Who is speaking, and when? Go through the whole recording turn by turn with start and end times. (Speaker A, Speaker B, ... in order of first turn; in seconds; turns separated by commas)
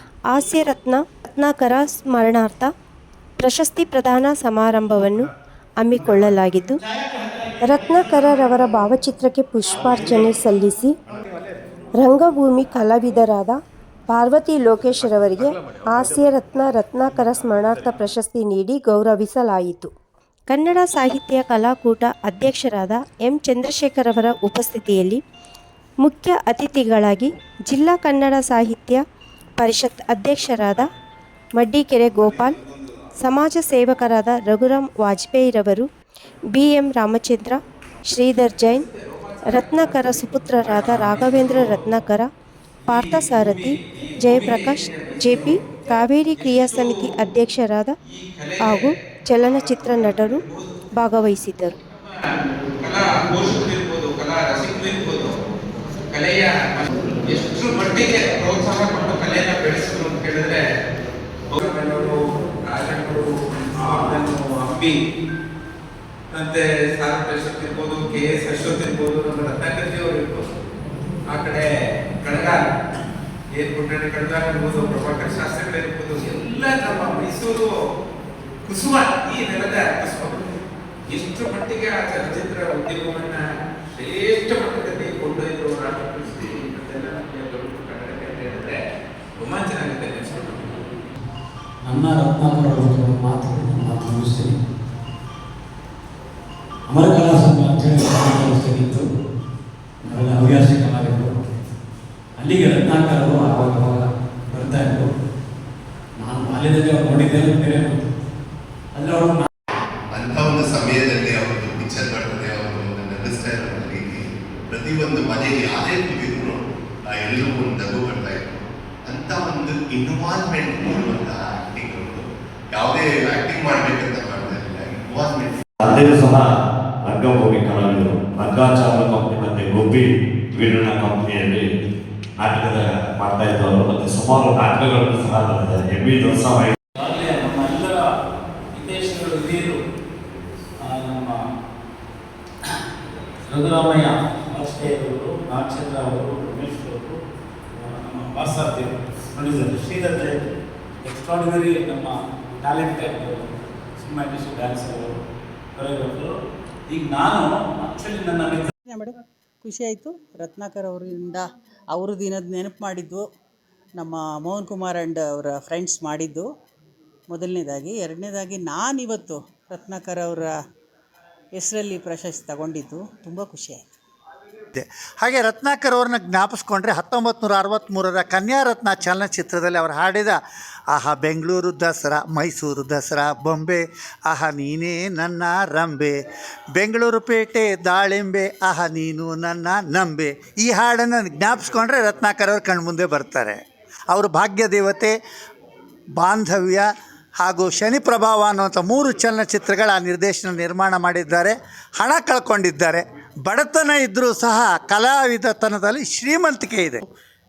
Speaker A: 0.3-2.7, Speaker A: 3.4-5.3, Speaker A: 5.8-6.8, Speaker A: 7.6-10.9, Speaker A: 12.0-19.9, Speaker A: 20.5-25.2, Speaker A: 26.0-29.0, Speaker A: 29.6-30.9, Speaker A: 31.6-32.6, Speaker A: 33.2-35.9, Speaker A: 36.5-38.8, Speaker B: 38.6-41.8, Speaker A: 39.5-42.3, Speaker A: 42.9-47.9, Speaker B: 42.9-47.1, Speaker B: 48.0-50.7, Speaker A: 48.6-50.4, Speaker A: 50.9-51.7, Speaker B: 52.0-55.4, Speaker B: 56.1-60.7, Speaker B: 61.5-65.0, Speaker B: 66.3-70.5, Speaker B: 71.3-71.7, Speaker B: 72.2-72.7, Speaker B: 73.5-77.7, Speaker B: 78.6-80.5, Speaker B: 81.1-83.4, Speaker B: 83.9-88.8, Speaker B: 89.4-90.8, Speaker C: 91.8-94.5, Speaker C: 96.9-99.0, Speaker C: 100.0-101.3, Speaker C: 102.4-105.1, Speaker C: 106.2-108.0, Speaker C: 108.9-109.5, Speaker D: 110.1-125.6, Speaker E: 125.8-126.5, Speaker E: 127.0-131.7, Speaker E: 132.4-136.7, Speaker C: 136.9-138.0, Speaker C: 138.7-139.8, Speaker C: 140.8-141.4, Speaker C: 143.5-147.2, Speaker C: 147.7-150.5, Speaker C: 151.0-155.1, Speaker C: 155.8-156.3, Speaker C: 156.9-158.7, Speaker F: 158.9-163.2, Speaker F: 163.9-166.4, Speaker F: 167.3-170.6, Speaker F: 171.5-173.9, Speaker G: 174.7-180.4, Speaker G: 180.9-186.1, Speaker G: 186.8-193.6, Speaker G: 194.1-195.1, Speaker G: 196.2-196.8, Speaker G: 197.4-207.0